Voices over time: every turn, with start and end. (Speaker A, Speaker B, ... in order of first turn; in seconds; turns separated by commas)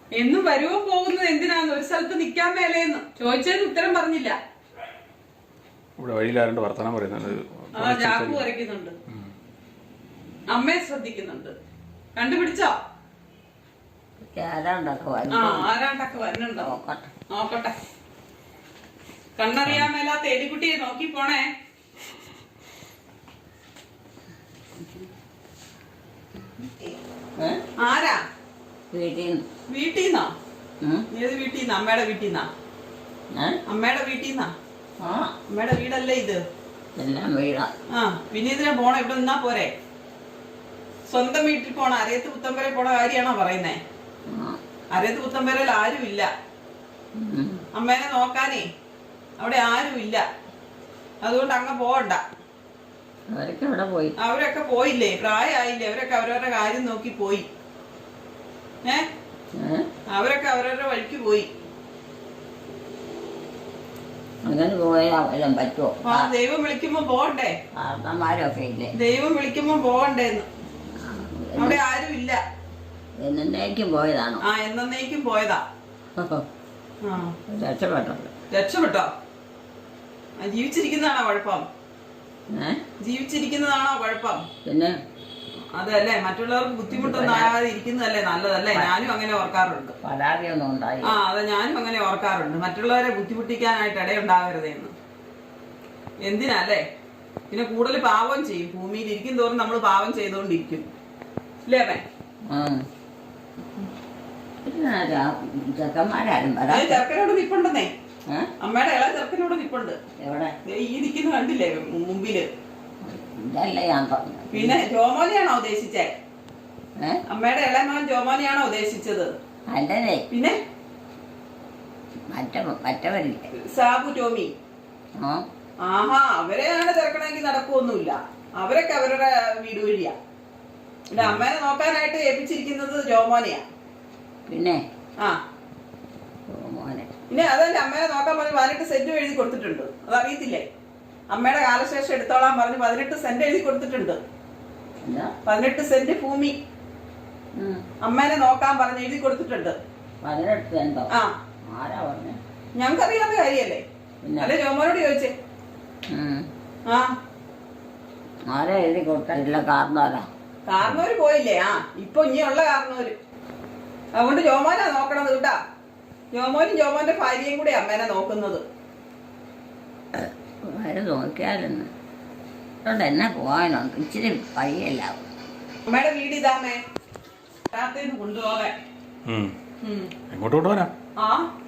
Speaker A: 0.1-4.3, Speaker B: 6.0-8.4, Speaker A: 7.8-8.9, Speaker A: 10.5-11.5, Speaker A: 12.2-12.7, Speaker C: 14.3-15.7, Speaker A: 15.3-16.7, Speaker C: 16.6-17.1, Speaker A: 17.3-17.7, Speaker A: 19.4-21.4, Speaker A: 27.8-28.2, Speaker C: 28.9-29.4, Speaker A: 29.7-30.3, Speaker A: 31.1-32.5, Speaker C: 33.3-33.6, Speaker A: 33.7-34.5, Speaker C: 35.0-35.3, Speaker A: 35.5-36.4, Speaker C: 37.0-37.7, Speaker A: 37.9-39.7, Speaker A: 41.1-43.8, Speaker C: 44.3-44.6, Speaker A: 44.9-46.3, Speaker C: 47.1-47.6, Speaker A: 47.7-48.6, Speaker A: 49.4-50.2, Speaker A: 51.2-52.2, Speaker C: 53.3-54.1, Speaker A: 54.2-57.5, Speaker C: 59.5-59.9, Speaker A: 60.1-61.5, Speaker C: 64.4-66.3, Speaker A: 66.0-67.5, Speaker C: 67.7-68.9, Speaker A: 68.9-70.5, Speaker C: 70.9-71.8, Speaker A: 71.6-72.4, Speaker C: 73.2-74.4, Speaker A: 74.4-75.6, Speaker C: 76.2-76.5, Speaker A: 77.0-77.3, Speaker C: 77.5-78.3, Speaker A: 78.5-79.1, Speaker A: 80.4-81.6, Speaker C: 82.5-82.8, Speaker A: 83.0-84.5, Speaker C: 84.6-85.0, Speaker A: 85.8-90.0, Speaker C: 86.9-87.5, Speaker C: 90.0-91.1, Speaker A: 91.0-94.9, Speaker A: 96.2-96.8, Speaker A: 97.5-100.8, Speaker A: 101.7-102.0, Speaker C: 102.5-102.8, Speaker C: 104.6-107.0, Speaker A: 106.7-107.9, Speaker A: 108.6-110.0, Speaker C: 110.2-110.5, Speaker A: 110.7-112.5, Speaker C: 113.0-114.8, Speaker A: 114.5-116.1, Speaker A: 117.3-119.3, Speaker C: 119.7-120.2, Speaker A: 120.3-120.6, Speaker C: 122.3-123.5, Speaker A: 123.7-124.5, Speaker C: 125.2-125.4, Speaker A: 125.8-130.1, Speaker A: 131.1-133.6, Speaker B: 131.2-131.4, Speaker C: 134.5-134.8, Speaker C: 136.5-137.1, Speaker A: 137.3-140.6, Speaker A: 141.3-144.2, Speaker C: 145.0-145.3, Speaker A: 145.4-146.5, Speaker C: 147.6-147.8, Speaker A: 148.0-149.8, Speaker C: 150.2-151.1, Speaker C: 151.7-152.4, Speaker A: 152.8-153.8, Speaker C: 154.2-154.5, Speaker A: 154.4-155.3, Speaker C: 156.1-156.5, Speaker A: 156.9-157.1, Speaker C: 158.5-160.3, Speaker A: 160.7-163.1, Speaker A: 164.1-165.6, Speaker A: 166.3-168.6, Speaker C: 170.1-171.9, Speaker C: 172.8-175.3, Speaker A: 175.9-176.8, Speaker A: 177.7-178.7, Speaker B: 179.2-179.5, Speaker A: 179.8-180.1, Speaker B: 180.3-180.9, Speaker A: 181.2-181.4